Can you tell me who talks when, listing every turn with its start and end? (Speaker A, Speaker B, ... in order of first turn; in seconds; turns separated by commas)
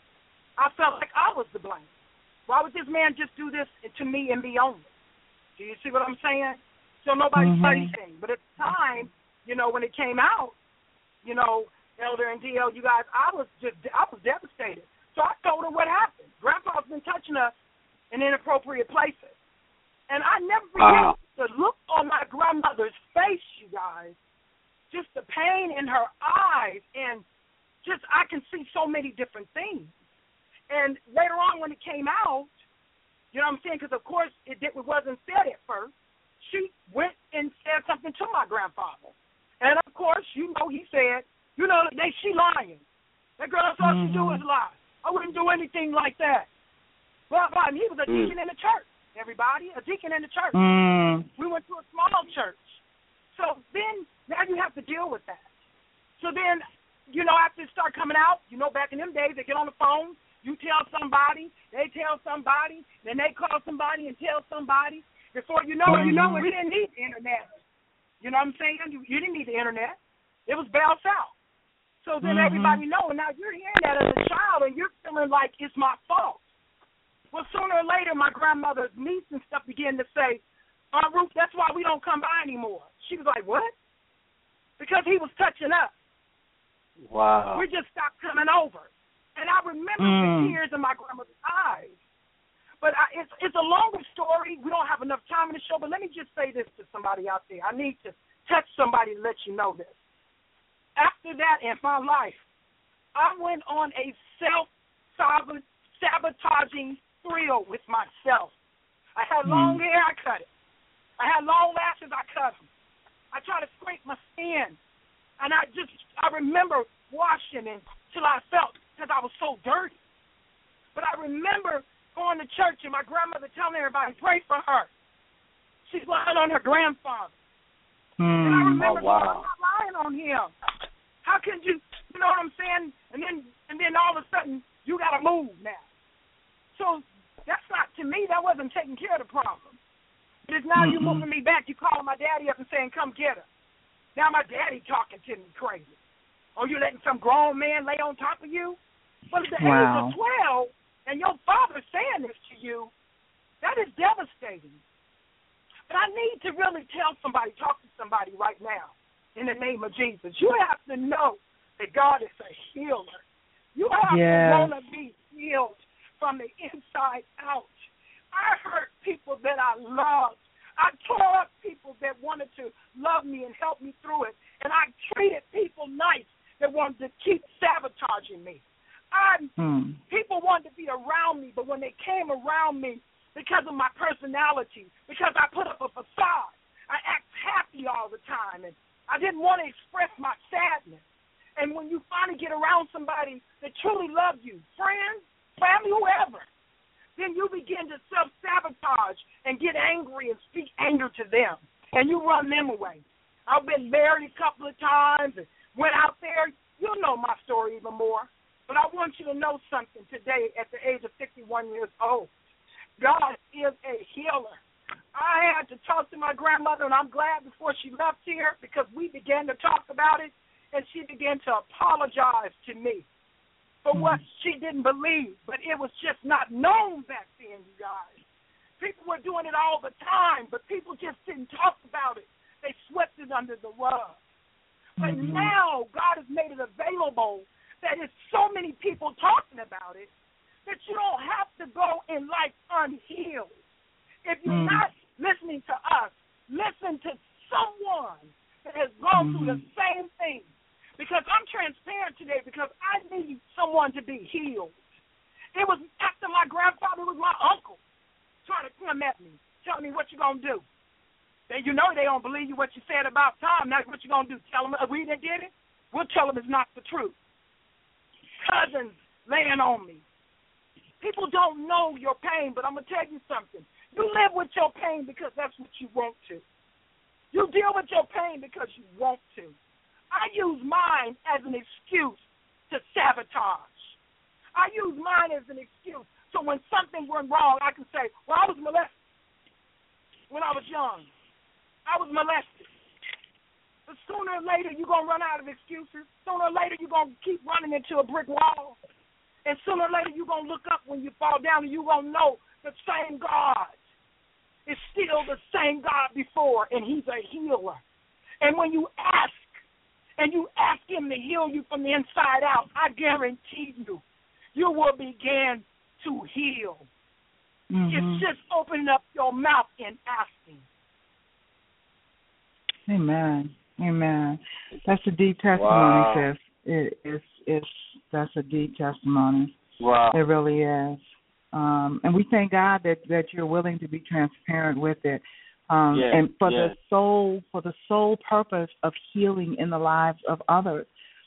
Speaker A: 0.6-1.9, Speaker A: 2.5-4.9, Speaker A: 5.6-10.6, Speaker B: 7.4-7.9, Speaker A: 11.2-17.5, Speaker A: 18.1-19.4, Speaker A: 20.1-24.2, Speaker C: 20.8-21.1, Speaker A: 24.9-27.2, Speaker A: 27.8-29.9, Speaker A: 30.7-32.5, Speaker A: 33.3-42.8, Speaker A: 43.4-46.5, Speaker B: 43.8-44.4, Speaker A: 47.3-50.6, Speaker C: 48.1-48.3, Speaker B: 50.5-51.3, Speaker A: 51.4-52.8, Speaker A: 53.3-55.5, Speaker A: 56.2-67.5, Speaker B: 65.9-66.5, Speaker A: 68.2-71.3, Speaker A: 72.0-76.4, Speaker B: 72.2-72.8, Speaker A: 77.3-80.4, Speaker A: 80.9-83.7, Speaker A: 84.8-85.9, Speaker C: 87.0-87.6, Speaker A: 87.5-92.0, Speaker B: 90.0-90.6, Speaker A: 92.8-100.0, Speaker A: 101.0-102.4, Speaker A: 103.2-108.5, Speaker A: 109.2-110.5, Speaker B: 109.5-109.8, Speaker A: 111.2-112.7, Speaker A: 113.3-114.8, Speaker A: 115.4-120.0, Speaker A: 121.0-124.9, Speaker A: 125.9-127.3, Speaker B: 128.2-128.9, Speaker A: 128.4-130.5, Speaker C: 128.8-129.5, Speaker A: 131.2-135.8, Speaker A: 136.8-139.8, Speaker A: 140.5-143.5, Speaker B: 140.8-141.2, Speaker A: 144.2-145.9, Speaker A: 146.6-148.8, Speaker A: 149.3-152.9, Speaker B: 149.6-150.2, Speaker A: 153.6-154.8, Speaker A: 155.9-163.2, Speaker A: 163.8-179.5, Speaker B: 164.1-164.7, Speaker B: 179.6-180.0, Speaker A: 180.1-191.0, Speaker A: 191.6-196.4, Speaker A: 197.2-212.3, Speaker A: 213.0-214.6, Speaker A: 215.1-223.1, Speaker A: 223.8-228.2, Speaker B: 223.9-224.2, Speaker A: 228.8-234.2, Speaker B: 235.0-235.5, Speaker A: 235.0-240.1, Speaker A: 240.7-243.6, Speaker A: 244.2-250.5, Speaker B: 244.5-244.8, Speaker B: 249.2-249.6, Speaker A: 251.0-254.8, Speaker A: 255.6-257.8, Speaker A: 258.4-260.6, Speaker A: 261.5-267.1, Speaker A: 268.4-270.0, Speaker A: 271.0-276.4, Speaker A: 277.3-279.6, Speaker A: 280.1-283.9, Speaker A: 284.6-288.9, Speaker A: 290.3-291.1, Speaker A: 291.9-292.7, Speaker A: 293.9-298.8, Speaker A: 299.4-303.8, Speaker A: 304.7-307.8, Speaker A: 308.4-309.5, Speaker A: 310.2-314.0, Speaker A: 314.6-316.9, Speaker B: 317.7-318.3, Speaker A: 317.9-320.7, Speaker B: 322.9-329.6, Speaker C: 325.6-326.3, Speaker C: 329.8-330.2, Speaker B: 330.1-331.0, Speaker B: 331.5-340.9, Speaker C: 335.9-336.8